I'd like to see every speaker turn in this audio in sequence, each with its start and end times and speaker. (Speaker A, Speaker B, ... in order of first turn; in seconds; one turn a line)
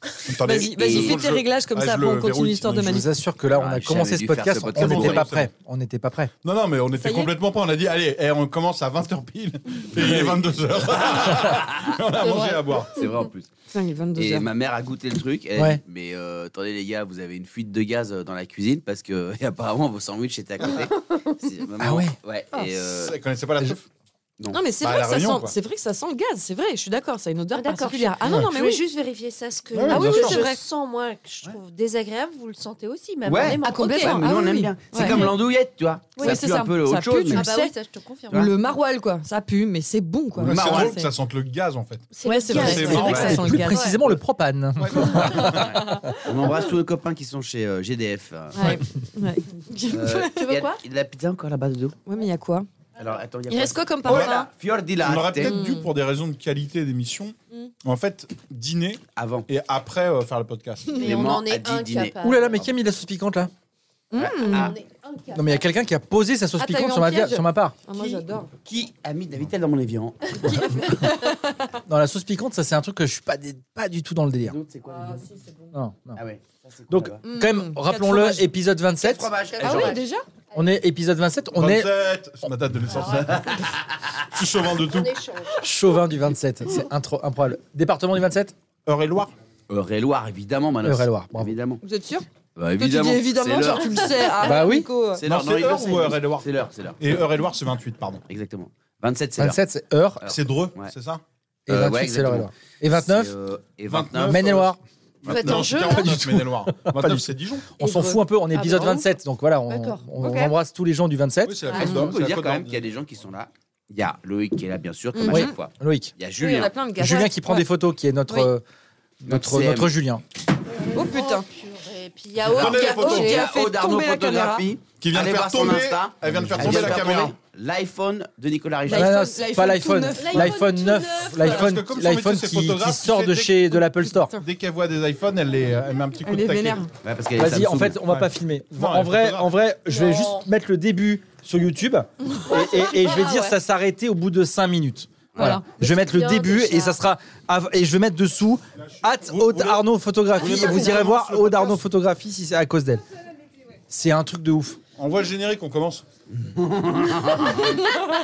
Speaker A: 0.3-3.0
Speaker B: 0.4-3.1
Speaker C: 0.8-1.2
Speaker D: 2.8-6.3
Speaker C: 3.5-5.3
Speaker A: 4.7-5.5
Speaker A: 6.4-13.1
Speaker B: 7.0-7.3
Speaker C: 10.0-10.4
Speaker C: 11.0-11.9
Speaker E: 12.2-12.8
Speaker C: 12.9-13.5
Speaker B: 13.7-14.5
Speaker C: 14.2-23.2
Speaker D: 15.6-15.8
Speaker D: 21.8-22.2
Speaker A: 22.8-23.9
Speaker B: 24.5-28.8
Speaker A: 24.8-25.6
Speaker E: 27.5-34.3
Speaker A: 29.7-30.4
Speaker B: 29.9-30.6
Speaker C: 33.2-37.5
Speaker B: 33.6-35.3
Speaker B: 36.2-37.7
Speaker E: 37.3-38.5
Speaker B: 38.3-41.1
Speaker A: 40.4-43.6
Speaker C: 40.4-41.0
Speaker E: 42.1-44.0
Speaker B: 42.2-44.2
Speaker C: 42.6-43.4
Speaker D: 43.2-46.1
Speaker A: 44.8-45.8
Speaker C: 45.6-48.8
Speaker B: 48.5-50.5
Speaker C: 49.9-52.0
Speaker E: 50.3-50.8
Speaker B: 52.1-52.7
Speaker C: 53.0-55.6
Speaker B: 53.5-54.5
Speaker A: 54.1-54.3
Speaker A: 55.0-61.1
Speaker B: 55.4-55.9
Speaker C: 59.1-59.5
Speaker E: 60.9-62.6
Speaker C: 61.0-62.2
Speaker D: 62.2-63.5
Speaker B: 64.1-64.7
Speaker C: 64.2-64.8
Speaker E: 64.4-65.7
Speaker D: 65.3-67.8
Speaker B: 66.6-68.5
Speaker C: 68.0-70.9
Speaker E: 70.5-71.0
Speaker B: 71.0-71.7
Speaker D: 71.9-74.6
Speaker C: 74.5-75.3
Speaker B: 74.9-75.7
Speaker D: 75.7-76.2
Speaker C: 76.2-77.2
Speaker D: 76.9-79.3
Speaker B: 77.2-78.5
Speaker C: 79.0-80.0
Speaker E: 79.5-80.0
Speaker B: 79.6-80.2
Speaker D: 80.5-82.1
Speaker A: 81.5-85.2
Speaker E: 82.9-83.3
Speaker E: 84.8-85.7
Speaker D: 85.6-88.5
Speaker A: 88.9-89.3
Speaker C: 89.7-91.8
Speaker D: 90.8-91.5
Speaker B: 91.8-92.3
Speaker C: 92.6-94.4
Speaker B: 92.8-95.2
Speaker D: 94.4-94.9
Speaker C: 95.1-97.0
Speaker A: 95.2-96.5
Speaker A: 97.0-98.2
Speaker C: 98.3-99.6
Speaker D: 99.4-100.3
Speaker C: 100.2-100.9
Speaker A: 100.3-101.2
Speaker D: 101.7-103.3
Speaker C: 101.7-104.6
Speaker A: 103.9-107.7
Speaker D: 104.2-104.8
Speaker C: 105.3-105.7
Speaker E: 105.3-106.1
Speaker D: 105.7-111.7
Speaker E: 107.8-109.1
Speaker E: 109.7-110.5
Speaker A: 111.5-113.0
Speaker B: 111.7-112.2
Speaker C: 111.9-116.7
Speaker B: 115.1-115.5
Speaker D: 115.3-116.1
Speaker B: 116.4-117.7
Speaker D: 117.0-118.6
Speaker D: 119.2-120.2
Speaker C: 119.3-119.9
Speaker E: 120.8-123.4
Speaker B: 120.9-121.5
Speaker A: 122.5-123.5
Speaker B: 122.6-124.7
Speaker C: 123.1-129.2
Speaker A: 125.0-127.4
Speaker B: 128.9-130.6
Speaker D: 128.9-134.4
Speaker E: 130.2-131.7
Speaker A: 131.4-136.8
Speaker B: 136.3-136.9
Speaker C: 137.0-138.0
Speaker D: 137.4-153.0
Speaker A: 138.1-139.5
Speaker E: 139.9-140.4
Speaker E: 142.5-143.6
Speaker B: 145.3-145.6
Speaker E: 145.4-147.0
Speaker A: 149.1-151.8
Speaker D: 153.9-154.8
Speaker A: 155.0-156.0
Speaker C: 156.3-157.7